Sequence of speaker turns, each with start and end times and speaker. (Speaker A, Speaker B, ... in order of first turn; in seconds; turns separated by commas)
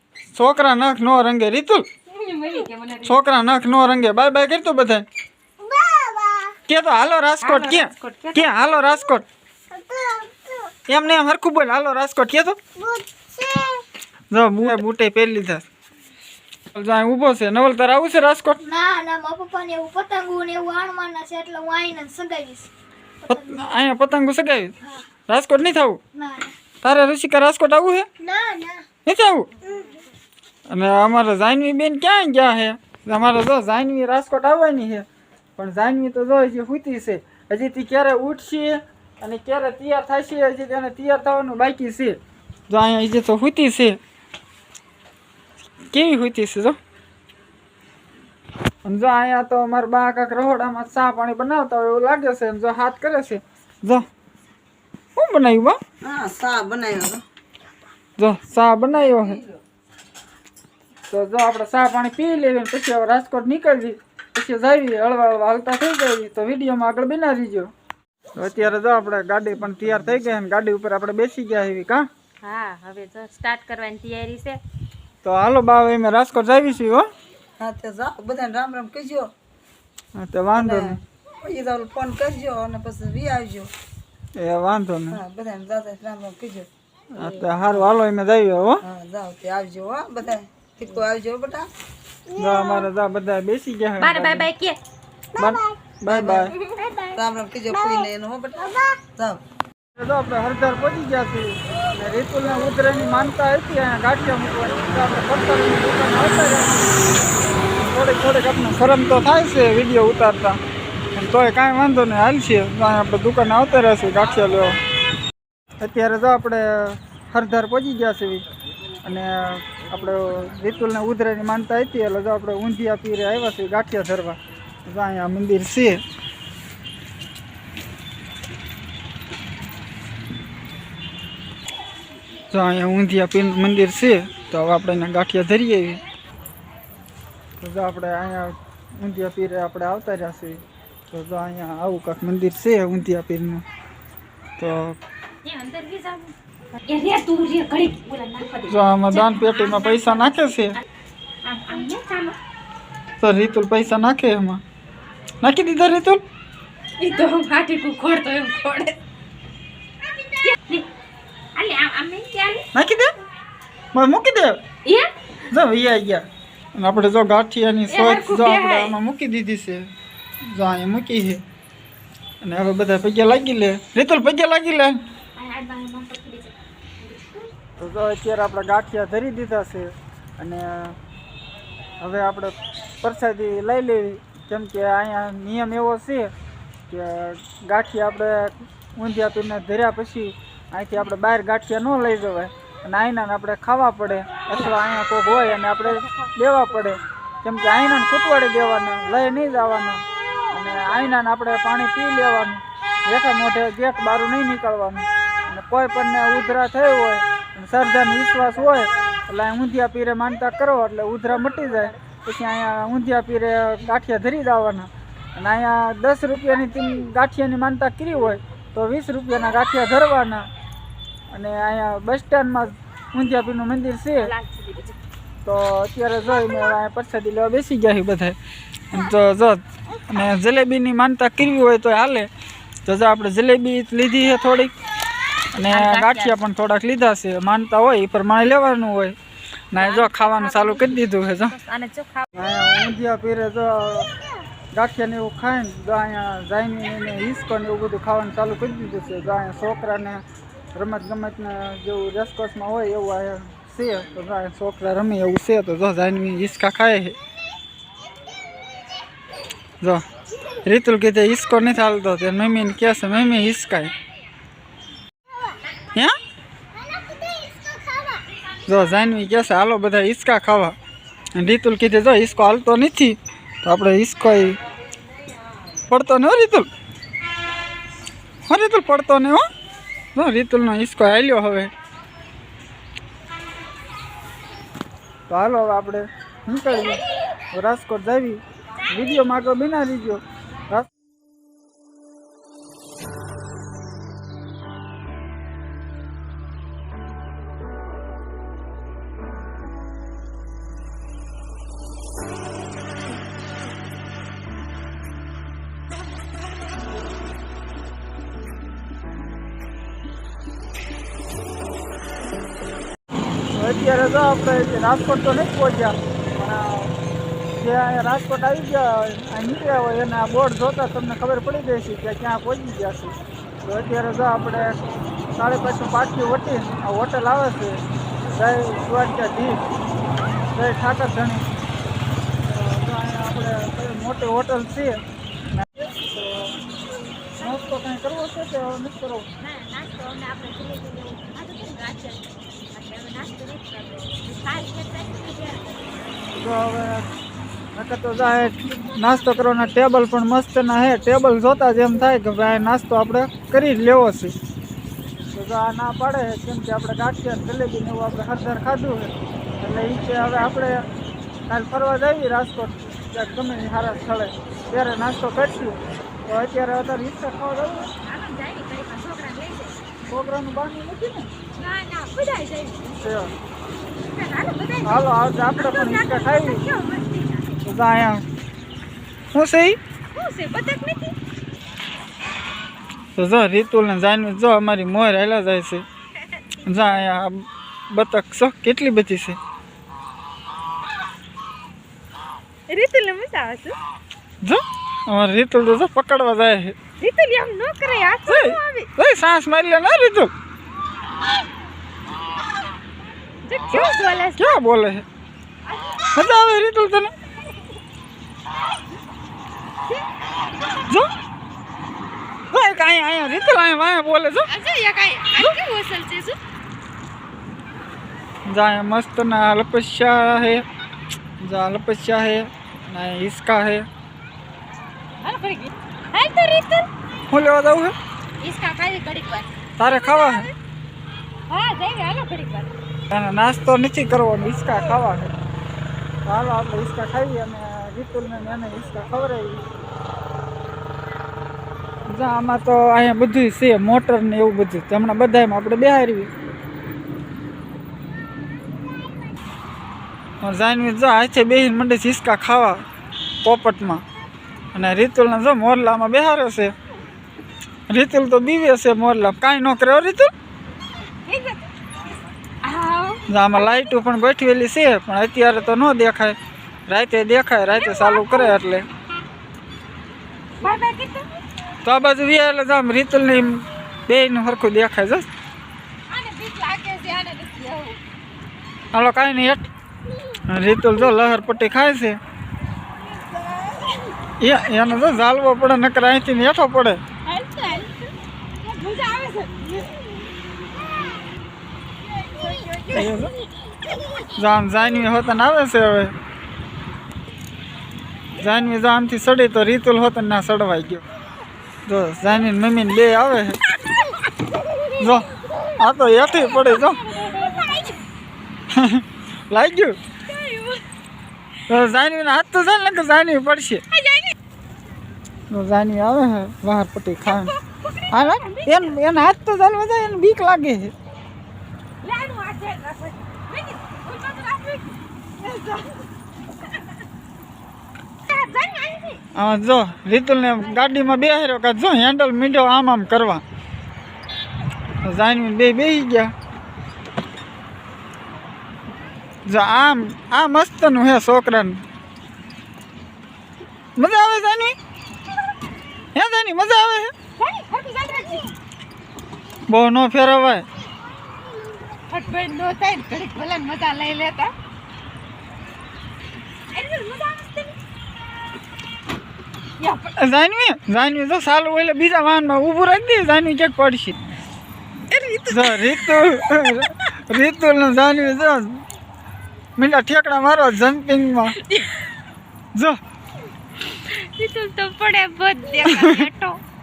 Speaker A: 0.3-1.9, Speaker B: 2.1-3.3, Speaker A: 3.0-5.0, Speaker C: 5.6-6.5, Speaker A: 6.7-9.2, Speaker B: 7.4-8.8, Speaker C: 9.8-10.7, Speaker A: 10.9-12.6, Speaker C: 12.8-13.8, Speaker A: 14.3-15.6, Speaker A: 16.7-18.6, Speaker C: 18.7-22.7, Speaker A: 23.3-24.8, Speaker A: 25.3-26.0, Speaker C: 26.2-26.5, Speaker A: 26.8-28.1, Speaker C: 28.2-28.8, Speaker A: 29.0-29.5, Speaker A: 30.7-42.2, Speaker A: 42.7-44.0, Speaker A: 45.9-46.8, Speaker A: 48.9-54.0, Speaker A: 55.1-55.8, Speaker D: 56.0-57.2, Speaker A: 58.2-59.4, Speaker A: 61.1-67.7, Speaker A: 68.3-72.1, Speaker B: 72.4-74.6, Speaker A: 75.2-77.1, Speaker D: 77.6-79.3, Speaker A: 80.2-81.0, Speaker D: 80.5-83.7, Speaker A: 84.3-85.2, Speaker D: 85.1-86.7, Speaker A: 87.1-88.8, Speaker D: 88.8-91.7, Speaker A: 92.3-94.5, Speaker B: 94.0-94.8, Speaker A: 95.4-96.5, Speaker D: 96.1-96.5, Speaker C: 96.9-97.1, Speaker D: 97.1-99.4, Speaker A: 100.0-106.9, Speaker A: 107.7-110.6, Speaker A: 111.1-114.8, Speaker A: 115.8-118.4, Speaker A: 119.0-126.0, Speaker A: 132.5-136.0, Speaker A: 137.6-143.6, Speaker A: 144.6-145.0, Speaker B: 145.4-146.3, Speaker B: 146.8-150.8, Speaker A: 148.7-150.8, Speaker B: 151.4-152.4, Speaker A: 153.2-154.6, Speaker A: 155.4-156.2, Speaker B: 157.0-159.0, Speaker B: 160.2-160.9, Speaker B: 161.6-162.7, Speaker A: 162.7-163.1, Speaker A: 163.9-164.6, Speaker B: 164.8-165.1, Speaker A: 165.5-166.2, Speaker A: 166.8-169.9, Speaker B: 167.9-169.0, Speaker A: 170.5-171.4, Speaker A: 172.4-175.0, Speaker B: 175.3-177.5, Speaker A: 177.8-181.0, Speaker A: 182.0-186.3, Speaker A: 186.9-220.5, Speaker B: 211.4-211.9, Speaker A: 221.3-224.3, Speaker B: 224.2-224.9, Speaker A: 225.4-228.3, Speaker A: 228.9-232.3, Speaker A: 232.8-234.7, Speaker A: 235.6-239.2, Speaker B: 235.7-236.3, Speaker A: 239.7-241.5, Speaker B: 239.7-242.3, Speaker A: 242.3-244.1, Speaker A: 244.8-250.2, Speaker A: 250.7-257.2, Speaker A: 260.6-263.9, Speaker C: 267.1-268.0, Speaker A: 268.7-270.7, Speaker A: 271.3-274.6, Speaker A: 275.9-276.7, Speaker A: 278.5-279.4, Speaker A: 280.1-281.7, Speaker A: 285.3-287.0, Speaker A: 287.5-290.9, Speaker A: 313.5-316.9, Speaker A: 317.6-324.8, Speaker A: 325.3-329.6, Speaker A: 330.5-331.5, Speaker A: 332.4-335.0, Speaker A: 335.5-336.6, Speaker A: 337.4-339.3, Speaker B: 337.4-338.0, Speaker B: 339.4-346.2, Speaker A: 346.3-347.1, Speaker A: 347.8-354.3, Speaker B: 348.5-349.5, Speaker A: 355.3-360.8, Speaker B: 360.1-360.4, Speaker A: 361.5-367.9, Speaker B: 368.0-369.8, Speaker A: 370.1-371.3, Speaker B: 371.6-373.0, Speaker A: 373.0-373.3, Speaker B: 374.0-377.6, Speaker A: 374.8-376.6, Speaker A: 377.6-378.2, Speaker A: 379.3-379.8, Speaker B: 380.1-381.1, Speaker A: 383.2-385.8, Speaker B: 386.2-387.1, Speaker A: 386.6-389.4, Speaker B: 392.7-393.8, Speaker A: 394.4-396.8, Speaker B: 397.0-398.9, Speaker A: 398.3-400.3, Speaker B: 403.4-404.6, Speaker A: 403.7-405.0, Speaker B: 405.8-406.1, Speaker A: 406.1-407.1, Speaker A: 412.5-414.5, Speaker B: 414.5-416.4, Speaker A: 418.5-420.6, Speaker A: 421.4-423.9, Speaker B: 425.2-426.9, Speaker A: 427.3-427.9, Speaker B: 428.4-430.5, Speaker A: 429.8-430.5, Speaker B: 431.5-432.7, Speaker A: 433.1-435.3, Speaker A: 436.2-439.7, Speaker A: 442.1-446.3, Speaker A: 450.4-452.8, Speaker A: 453.4-454.0, Speaker A: 454.7-456.7, Speaker A: 457.9-460.3, Speaker B: 461.3-461.7, Speaker B: 462.6-463.6, Speaker A: 463.3-466.4, Speaker A: 466.9-468.9, Speaker B: 467.7-468.6, Speaker B: 470.6-471.3, Speaker A: 471.8-475.3, Speaker B: 476.1-478.0, Speaker A: 478.9-479.7, Speaker A: 480.5-482.2, Speaker B: 483.0-484.1, Speaker A: 484.4-487.0, Speaker B: 487.2-488.0, Speaker B: 488.6-490.0, Speaker B: 492.0-493.3, Speaker A: 492.9-493.3, Speaker A: 494.4-496.1, Speaker A: 498.4-501.0, Speaker A: 501.9-503.6, Speaker A: 505.0-505.2, Speaker A: 505.8-507.0, Speaker B: 507.0-508.0, Speaker A: 508.7-510.0, Speaker B: 510.3-510.8, Speaker A: 511.7-513.8, Speaker B: 513.9-514.3, Speaker A: 515.5-517.5, Speaker B: 517.2-519.0, Speaker A: 518.1-520.9, Speaker B: 522.0-526.0, Speaker B: 526.6-526.9, Speaker B: 528.3-529.2, Speaker A: 529.3-533.4, Speaker A: 535.0-536.3, Speaker A: 539.5-541.8, Speaker A: 544.0-544.7, Speaker A: 546.1-547.1, Speaker B: 547.4-548.5, Speaker A: 549.7-550.6, Speaker B: 551.9-554.5, Speaker B: 556.7-557.8, Speaker B: 559.8-560.1, Speaker A: 560.2-564.2, Speaker B: 565.1-566.2, Speaker A: 565.5-568.8, Speaker A: 569.8-571.6, Speaker B: 571.6-572.0, Speaker B: 573.8-576.6, Speaker A: 575.8-576.2